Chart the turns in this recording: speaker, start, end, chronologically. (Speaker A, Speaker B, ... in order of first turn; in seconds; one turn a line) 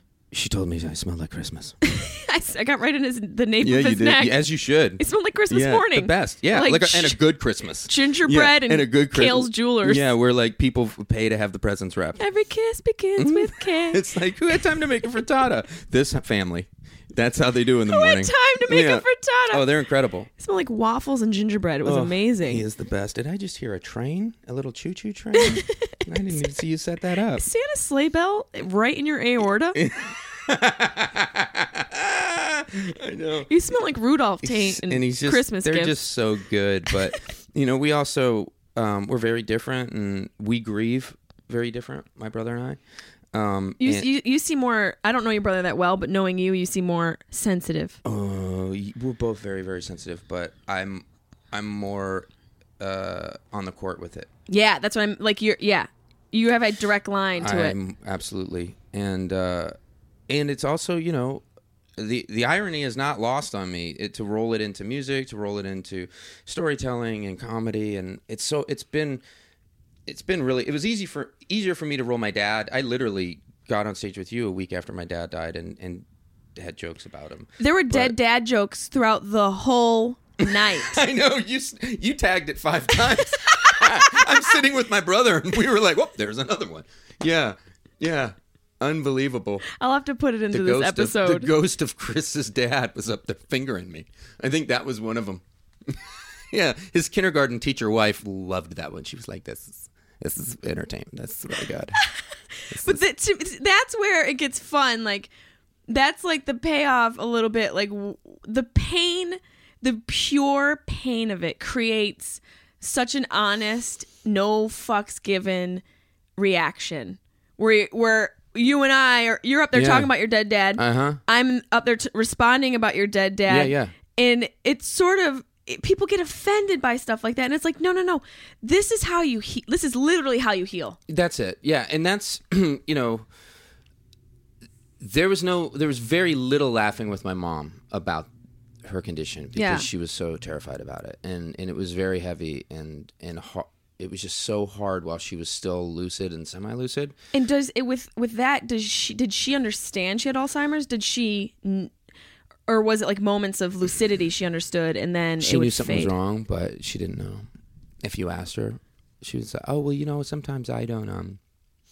Speaker A: 0.3-1.8
Speaker B: 1.8-4.4
Speaker A: 3.6-12.2
Speaker B: 5.0-7.2
Speaker B: 7.8-10.1
Speaker B: 12.2-14.0
Speaker A: 13.2-20.3
Speaker B: 17.9-19.6
Speaker B: 20.4-22.6
Speaker A: 21.9-27.4
Speaker B: 25.3-26.0
Speaker B: 27.4-29.8
Speaker A: 29.8-33.5
Speaker B: 33.5-36.0
Speaker A: 34.4-42.8
Speaker A: 43.3-44.1
Speaker B: 43.8-48.0
Speaker A: 48.0-54.3
Speaker B: 54.5-57.8
Speaker A: 57.4-59.7
Speaker A: 60.3-61.4
Speaker A: 62.0-69.2
Speaker A: 70.1-78.2
Speaker B: 77.6-81.0
Speaker A: 80.4-89.7
Speaker B: 89.7-91.5
Speaker A: 90.5-102.0
Speaker B: 102.7-105.3
Speaker A: 102.7-103.0
Speaker B: 105.9-115.8
Speaker B: 116.4-131.0
Speaker A: 119.7-120.1
Speaker A: 120.8-121.2
Speaker A: 123.5-124.0
Speaker A: 131.1-133.3
Speaker A: 135.0-138.3
Speaker A: 138.8-147.2
Speaker B: 139.6-139.9
Speaker B: 147.3-151.9
Speaker B: 152.7-156.1
Speaker A: 155.4-157.5
Speaker A: 158.0-161.4